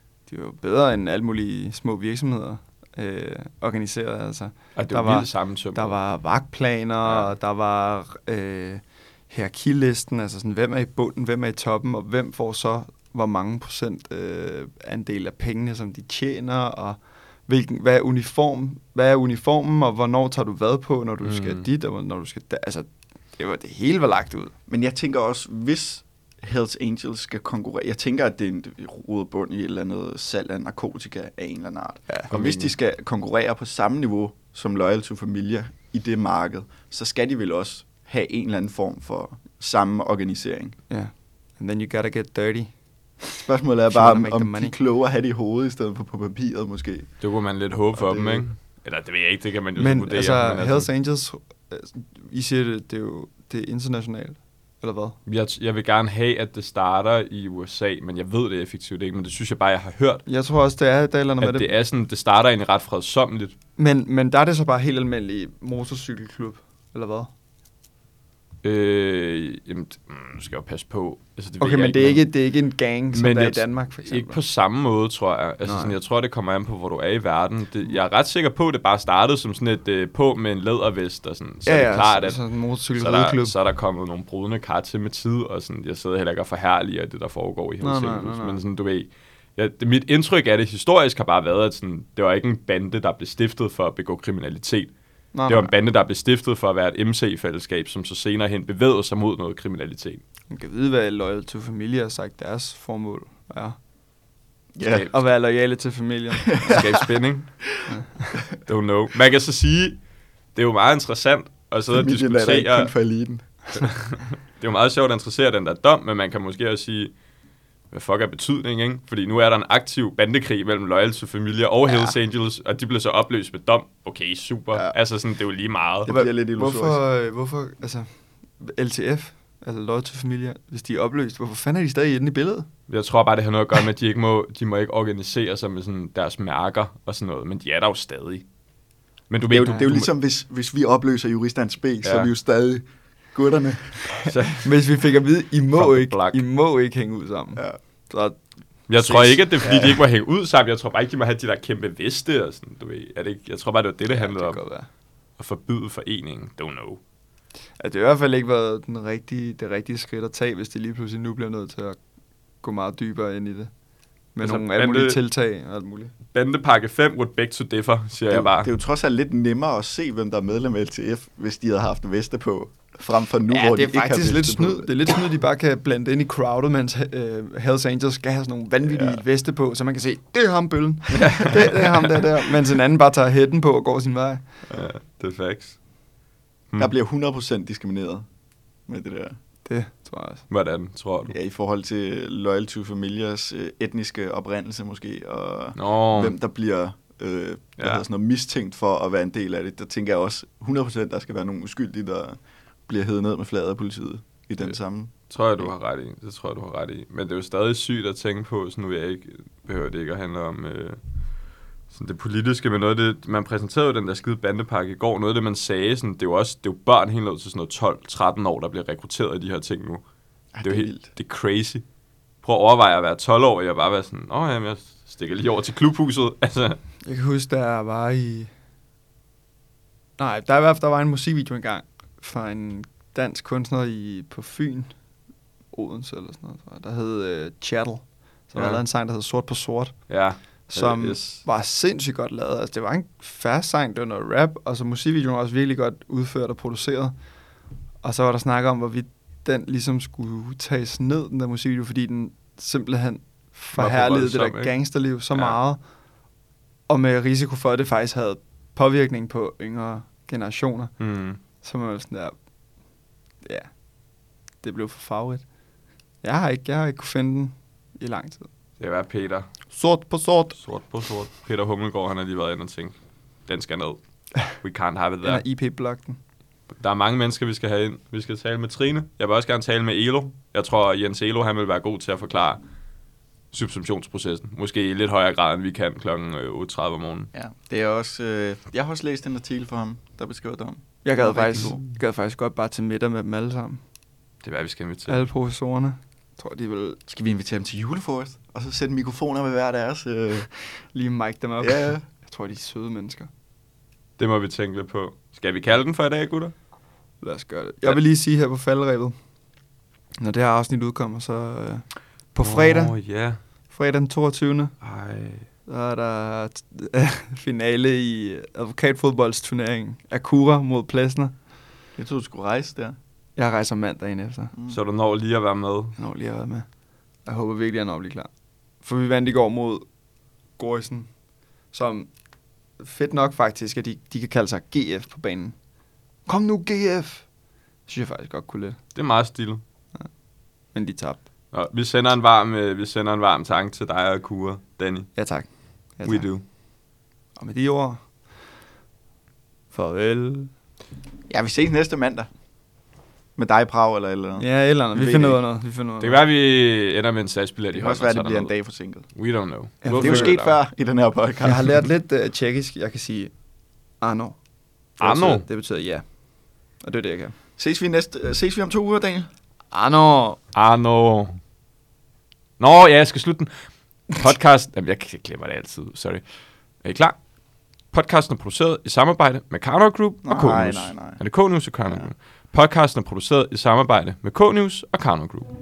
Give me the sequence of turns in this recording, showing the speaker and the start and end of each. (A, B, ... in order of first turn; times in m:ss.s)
0:00.3-0:24.5 A
0:04.7-0:06.0 B
0:07.0-0:07.3 B
0:21.2-0:21.6 B
0:24.7-0:40.8 C
0:32.3-0:32.7 B
0:40.9-0:42.7 A
0:43.3-0:44.8 A
0:43.4-0:47.1 C
0:47.2-0:50.9 B
0:48.0-0:48.4 A
0:49.8-0:55.2 A
0:55.2-1:00.2 B
1:00.3-1:01.7 A
1:01.4-1:03.5 B
1:03.8-1:07.3 A
1:08.6-1:12.3 B
1:11.6-1:14.4 A
1:13.1-1:22.4 B
1:15.6-1:16.0 A
1:21.6-1:23.5 A
1:22.9-1:34.9 B
1:27.8-1:28.6 A
1:35.3-1:35.7 A
1:35.5-1:40.2 B
1:40.5-1:43.8 A
1:44.7-1:45.0 C
1:44.8-1:45.2 B
1:45.1-1:46.8 A
1:46.6-1:47.0 C
1:46.7-1:47.6 B
1:47.9-1:48.4 A
1:48.6-1:50.0 B
1:50.5-1:52.9 B
1:51.9-1:53.4 C
1:53.7-1:57.1 B
1:57.9-2:06.1 B
2:06.0-2:07.0 C
2:06.1-2:12.7 A
2:12.9-2:18.4 B
2:19.3-2:20.1 B
2:19.5-2:24.4 C
2:22.0-2:22.3 B
2:24.2-2:24.7 B
2:24.6-2:28.4 A
2:25.7-2:26.4 B
2:28.9-2:34.6 B
2:29.0-2:29.4 A
2:29.6-2:30.0 C
2:34.1-2:34.9 A
2:35.4-2:37.0 B
2:37.8-2:42.0 A
2:42.6-2:43.7 A
2:44.3-2:46.1 A
2:44.4-2:45.2 B
2:46.3-2:48.7 B
2:48.3-2:55.1 C
2:53.5-3:04.4 A
2:58.9-2:59.2 B
3:01.1-3:02.2 B
3:04.7-3:05.8 B
3:06.8-3:08.2 C
3:08.9-3:09.4 C
3:09.6-3:10.4 A
3:10.5-3:11.4 B
3:11.3-3:25.7 C
3:15.8-3:16.3 B
3:17.8-3:18.0 B
3:25.3-3:31.0 B
3:31.9-3:40.0 B
3:40.5-3:41.1 C
3:40.6-3:41.8 B
3:42.4-3:46.8 B
3:47.0-3:48.5 A
3:50.2-3:54.9 A
3:55.7-4:00.0 A
3:58.5-3:58.8 B
4:00.1-4:01.4 B
4:00.7-4:07.1 A
4:08.0-4:15.8 A
4:13.7-4:14.8 B
4:15.3-4:15.6 B
4:16.9-4:20.9 A
4:21.0-4:21.4 B
4:21.6-4:22.3 A
4:23.4-4:23.7 A
4:24.6-4:25.4 A
4:26.2-4:28.5 A
4:28.8-4:29.5 B
4:29.7-4:30.6 A
4:30.6-4:32.9 B
4:33.5-4:35.4 B
4:35.2-4:36.2 A
4:36.7-4:42.6 B
4:43.5-4:47.3 B
4:47.3-4:51.8 C
4:51.0-4:53.8 A
4:54.4-4:55.2 B
4:55.1-4:57.0 A
4:57.1-5:00.5 C
5:00.9-5:03.3 A
5:01.6-5:02.0 C
5:04.2-5:06.5 B
5:07.2-5:09.2 A
5:10.2-5:12.9 A
5:12.4-5:13.4 B
5:13.7-5:14.7 A
5:14.8-5:15.5 B
5:15.7-5:21.3 A
5:22.0-5:23.0 C
5:23.4-5:24.5 A
5:24.7-5:26.0 B
5:26.0-5:26.6 A
5:27.2-5:28.3 A
5:28.8-5:29.8 A
5:30.6-5:31.1 A
5:31.7-5:32.1 A
5:32.8-5:35.5 A
5:36.2-5:37.2 A
5:37.9-5:38.8 A
5:38.9-5:39.6 B
5:40.7-5:41.2 A
5:41.5-5:45.2 B
5:45.2-5:46.3 A
5:46.0-5:46.4 B
5:47.4-5:48.0 A
5:49.7-5:50.5 A
5:51.3-5:52.3 C
5:53.4-5:55.4 C
5:54.4-5:56.2 A
5:56.0-5:58.5 B
5:57.7-5:59.0 C
5:59.1-6:00.6 B
5:59.8-6:00.4 A
5:59.9-6:01.8 C
6:01.4-6:03.3 A
6:04.0-6:04.4 A
6:05.0-6:05.4 B
6:05.0-6:05.4 C
6:05.0-6:06.0 A
6:06.8-6:07.4 A
6:07.6-6:09.3 C
6:09.7-6:10.4 A
6:10.5-6:11.4 B
6:12.6-6:13.5 B
6:14.1-6:16.2 B
6:16.8-6:17.2 B
6:17.9-6:25.5 B
6:20.2-6:21.2 C